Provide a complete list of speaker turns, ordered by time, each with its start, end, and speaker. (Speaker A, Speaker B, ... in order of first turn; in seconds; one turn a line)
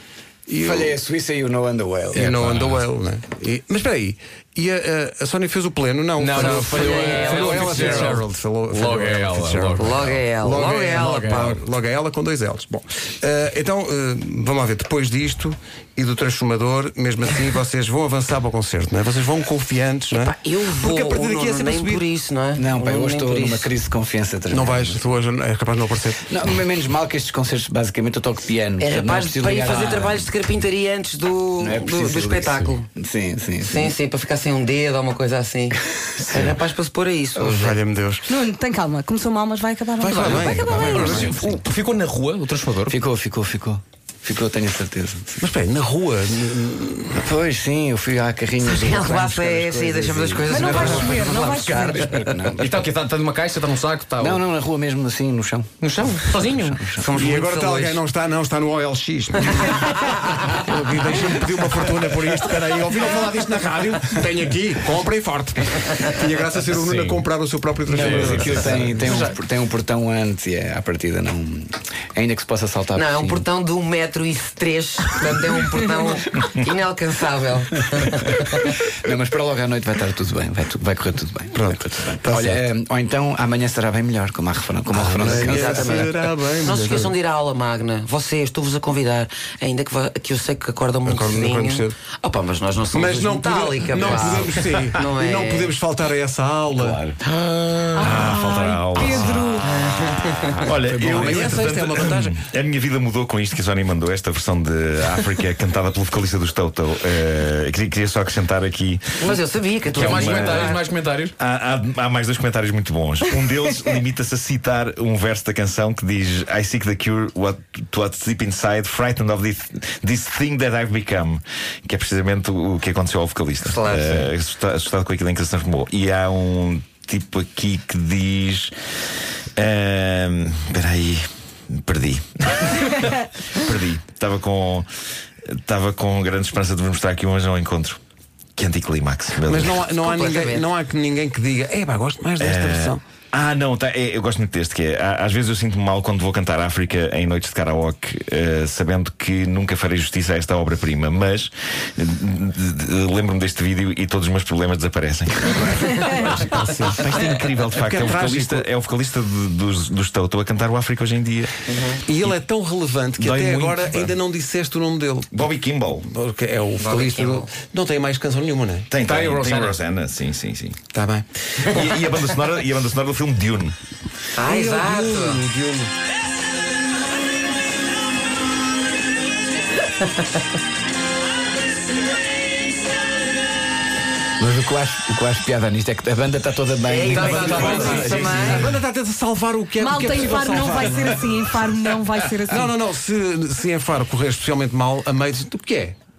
Speaker A: 0.5-0.9
Speaker B: 0.6-2.4
Speaker A: 2.1-9.9
Speaker C: 2.4-2.8
Speaker C: 6.2-10.3
Speaker D: 6.3-8.2
Speaker D: 9.8-11.3
Speaker A: 10.4-22.0
Speaker C: 10.9-11.6
Speaker D: 20.1-23.7
Speaker B: 22.5-25.0
Speaker A: 24.5-26.3
Speaker B: 26.3-30.3
Speaker D: 28.8-32.9
Speaker B: 31.6-33.9
Speaker D: 33.6-37.8
Speaker B: 36.3-36.6
Speaker A: 37.5-38.3
Speaker E: 38.3-41.4
Speaker A: 40.0-41.6
Speaker C: 40.6-43.0
Speaker B: 42.9-45.4
Speaker A: 45.4-47.3
Speaker B: 47.2-52.8
Speaker D: 48.6-52.3
Speaker E: 50.5-52.0
Speaker C: 52.6-54.4
Speaker B: 54.2-55.8
Speaker C: 55.8-56.9
Speaker B: 56.3-57.1
Speaker A: 57.0-69.0
Speaker D: 57.1-58.0
Speaker C: 66.7-67.2
Speaker B: 67.9-73.4
Speaker C: 67.9-69.3
Speaker D: 72.9-78.8
Speaker B: 79.0-86.1
Speaker A: 81.5-82.6
Speaker A: 84.9-87.1
Speaker D: 85.3-95.7
Speaker A: 91.0-91.9
Speaker A: 92.9-97.0
Speaker F: 96.7-99.8
Speaker E: 97.9-99.7
Speaker D: 99.6-100.6
Speaker C: 100.5-101.5
Speaker F: 100.6-109.4
Speaker A: 101.0-102.4
Speaker D: 109.2-110.8
Speaker F: 109.9-110.6
Speaker C: 109.9-111.3
Speaker F: 111.4-128.7
Speaker D: 123.6-124.3
Speaker F: 129.6-134.9
Speaker F: 135.4-138.0
Speaker F: 138.6-139.9
Speaker A: 139.5-143.0
Speaker D: 139.9-140.7
Speaker F: 142.4-161.6
Speaker A: 156.2-158.7
Speaker D: 161.7-162.0
Speaker A: 162.1-165.4
Speaker F: 163.2-164.1
Speaker F: 165.3-166.1
Speaker A: 166.0-168.9
Speaker D: 166.8-167.5
Speaker F: 168.9-170.8
Speaker C: 169.0-169.8
Speaker D: 170.9-172.2
Speaker F: 171.6-173.8
Speaker D: 174.3-175.4
Speaker A: 174.4-175.9
Speaker B: 184.4-188.3
Speaker D: 186.8-188.7
Speaker C: 187.1-188.6
Speaker A: 187.1-191.4
Speaker E: 189.8-192.7
Speaker A: 192.4-195.9